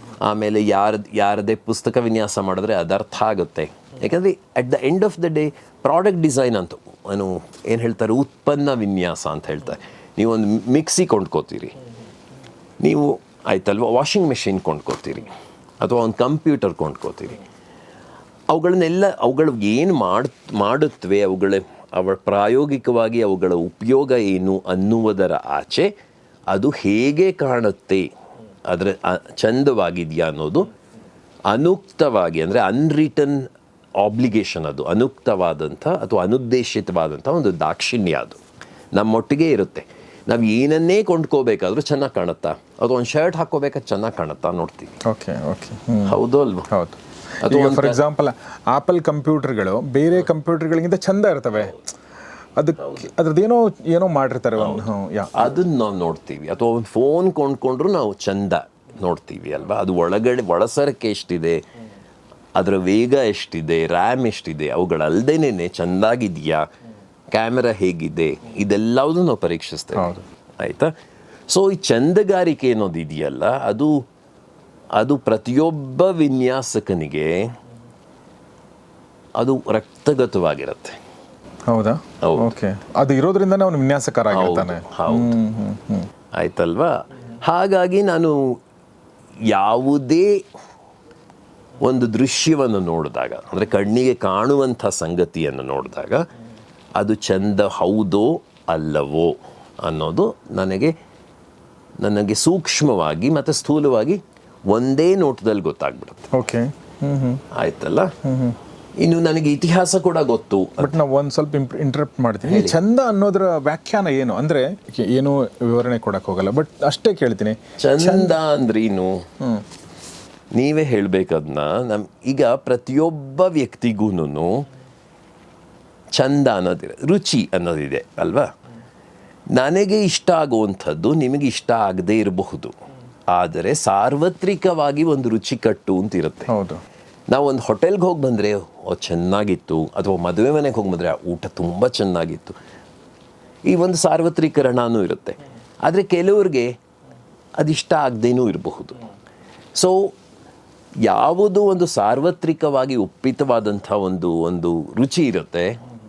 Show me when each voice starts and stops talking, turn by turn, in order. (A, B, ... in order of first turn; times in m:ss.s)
0:00.2-0:11.8 A
0:12.8-0:15.3 A
0:15.8-0:17.4 A
0:18.5-0:25.9 A
0:26.5-0:28.1 A
0:28.7-0:30.7 A
0:31.5-0:33.5 A
0:34.0-0:38.4 A
0:38.9-0:45.0 A
0:45.1-0:46.2 B
0:46.0-0:46.7 A
0:46.7-0:51.8 B
0:47.4-0:48.0 A
0:52.6-0:55.6 B
0:54.6-0:54.8 A
0:55.4-1:01.6 A
1:02.6-1:06.7 A
1:07.3-1:10.9 A
1:10.0-1:10.2 B
1:11.5-1:13.9 A
1:15.0-1:17.5 A
1:19.4-1:21.0 A
1:21.7-1:26.1 B
1:22.2-1:22.5 A
1:24.3-1:25.4 A
1:26.4-1:28.4 A
1:29.5-1:30.4 A
1:31.8-1:36.2 A
1:37.0-1:40.9 A
1:42.0-1:46.3 A
1:46.3-1:47.4 B
1:47.5-1:48.1 A
1:48.2-1:48.6 B
1:49.0-1:51.0 A
1:50.8-1:58.4 B
1:52.4-1:52.8 A
1:57.8-1:59.3 A
1:59.4-1:59.6 B
2:00.5-2:04.7 A
2:06.2-2:08.5 A
2:09.5-2:12.7 A
2:13.3-2:16.5 A
2:16.5-2:16.8 B
2:17.3-2:22.6 A
2:23.7-2:26.7 A
2:27.6-2:29.0 A
2:29.8-2:30.2 A
2:31.1-2:35.8 A